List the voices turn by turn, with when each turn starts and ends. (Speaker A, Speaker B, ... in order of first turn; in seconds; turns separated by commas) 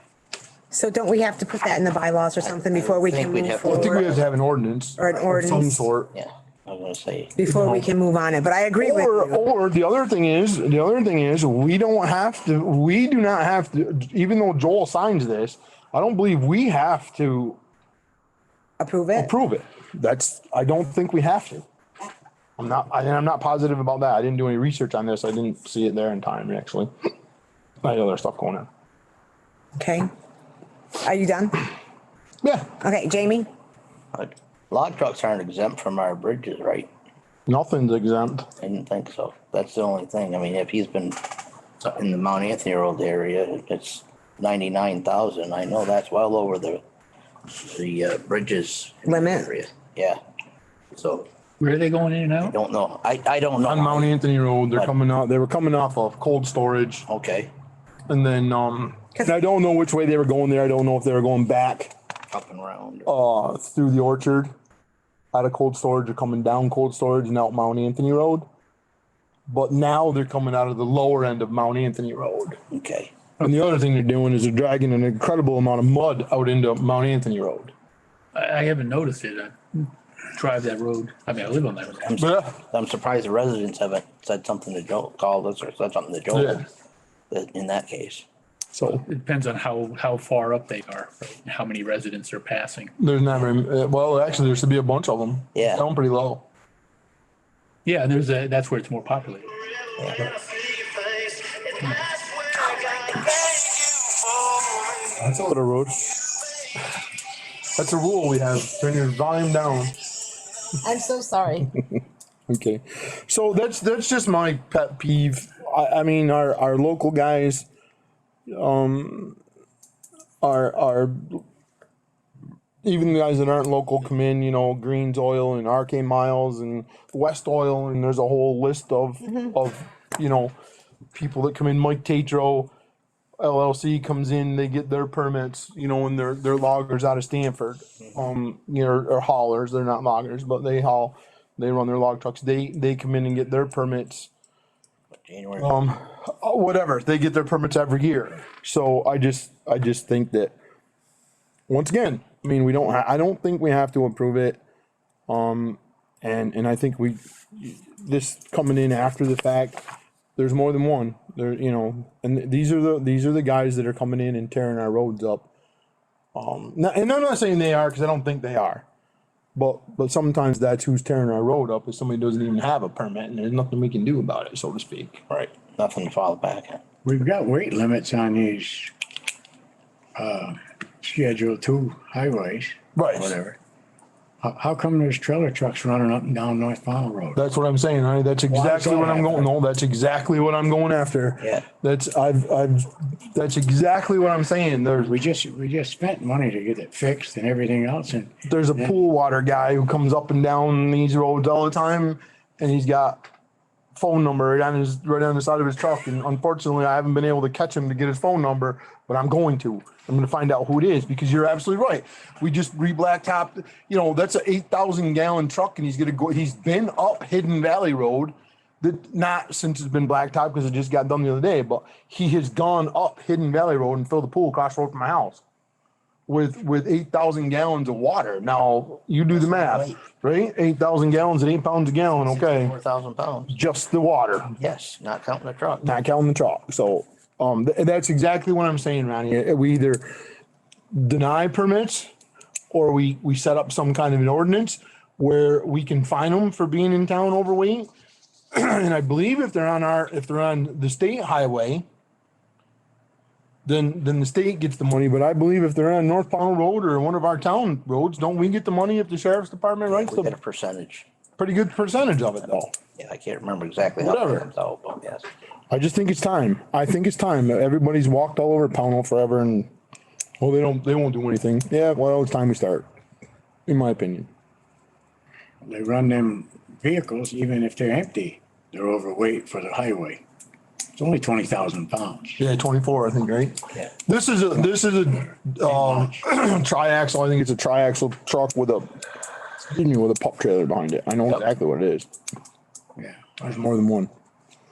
Speaker A: 0.7-4.1, Speaker B: 2.5-4.2, Speaker C: 3.6-6.1, Speaker A: 5.0-5.9, Speaker B: 6.1-7.3, Speaker A: 7.4-9.4, Speaker C: 7.5-7.9, Speaker C: 8.8-17.6, Speaker A: 18.8-19.3, Speaker C: 19.1-21.6, Speaker C: 22.6-26.9, Speaker C: 27.8-28.7, Speaker A: 29.8-30.1, Speaker A: 31.0-31.7, Speaker C: 32.4-32.7, Speaker A: 32.8-33.5, Speaker B: 34.1-36.9, Speaker C: 37.5-38.5, Speaker B: 38.6-46.8, Speaker B: 47.5-50.2, Speaker A: 49.1-49.5, Speaker B: 50.9-51.3, Speaker D: 51.6-52.5, Speaker B: 52.4-54.2, Speaker C: 53.7-57.1, Speaker B: 57.1-57.5, Speaker C: 58.1-61.9, Speaker B: 62.3-63.1, Speaker C: 63.1-64.5, Speaker C: 65.3-68.5, Speaker C: 69.5-72.6, Speaker B: 72.7-73.1, Speaker C: 73.4-77.7, Speaker D: 78.3-82.2, Speaker B: 82.0-86.6, Speaker C: 82.2-82.6, Speaker C: 86.3-86.6, Speaker B: 87.3-88.2, Speaker C: 88.7-89.0, Speaker D: 88.9-92.9, Speaker C: 93.0-96.5, Speaker B: 95.5-95.8, Speaker D: 97.9-99.6, Speaker B: 100.0-100.5, Speaker B: 103.2-103.6, Speaker C: 105.0-106.2, Speaker C: 107.8-110.0, Speaker A: 110.8-111.7, Speaker C: 112.5-117.7, Speaker C: 118.5-119.4, Speaker C: 120.4-121.4, Speaker C: 122.8-130.5, Speaker C: 131.1-132.7, Speaker C: 133.4-144.3, Speaker B: 145.1-145.7, Speaker C: 145.6-150.5, Speaker C: 151.7-154.6, Speaker C: 155.3-159.8, Speaker C: 160.4-165.5, Speaker C: 166.3-168.8, Speaker C: 169.6-175.2, Speaker B: 175.3-176.8, Speaker E: 177.0-178.9, Speaker E: 180.2-183.6, Speaker C: 182.9-183.4, Speaker E: 184.4-187.4, Speaker C: 187.3-195.2, Speaker E: 188.5-189.5, Speaker B: 191.4-191.7, Speaker E: 195.0-198.9, Speaker C: 198.4-203.2, Speaker C: 203.9-225.4, Speaker C: 226.3-232.7, Speaker B: 229.3-230.0, Speaker B: 232.3-233.6, Speaker C: 233.5-234.5, Speaker B: 234.6-235.9, Speaker C: 235.8-240.1, Speaker C: 240.9-242.1, Speaker C: 242.7-247.9, Speaker C: 248.5-251.8, Speaker C: 253.7-260.3, Speaker B: 259.9-261.1, Speaker C: 261.4-262.7, Speaker B: 263.0-265.3, Speaker C: 264.0-264.5, Speaker C: 265.7-269.7, Speaker C: 270.4-272.9, Speaker C: 273.7-274.3, Speaker E: 275.6-280.2, Speaker E: 281.0-282.4, Speaker C: 282.4-289.0, Speaker E: 285.6-286.2, Speaker C: 289.7-292.1, Speaker E: 293.0-293.4, Speaker C: 293.4-294.1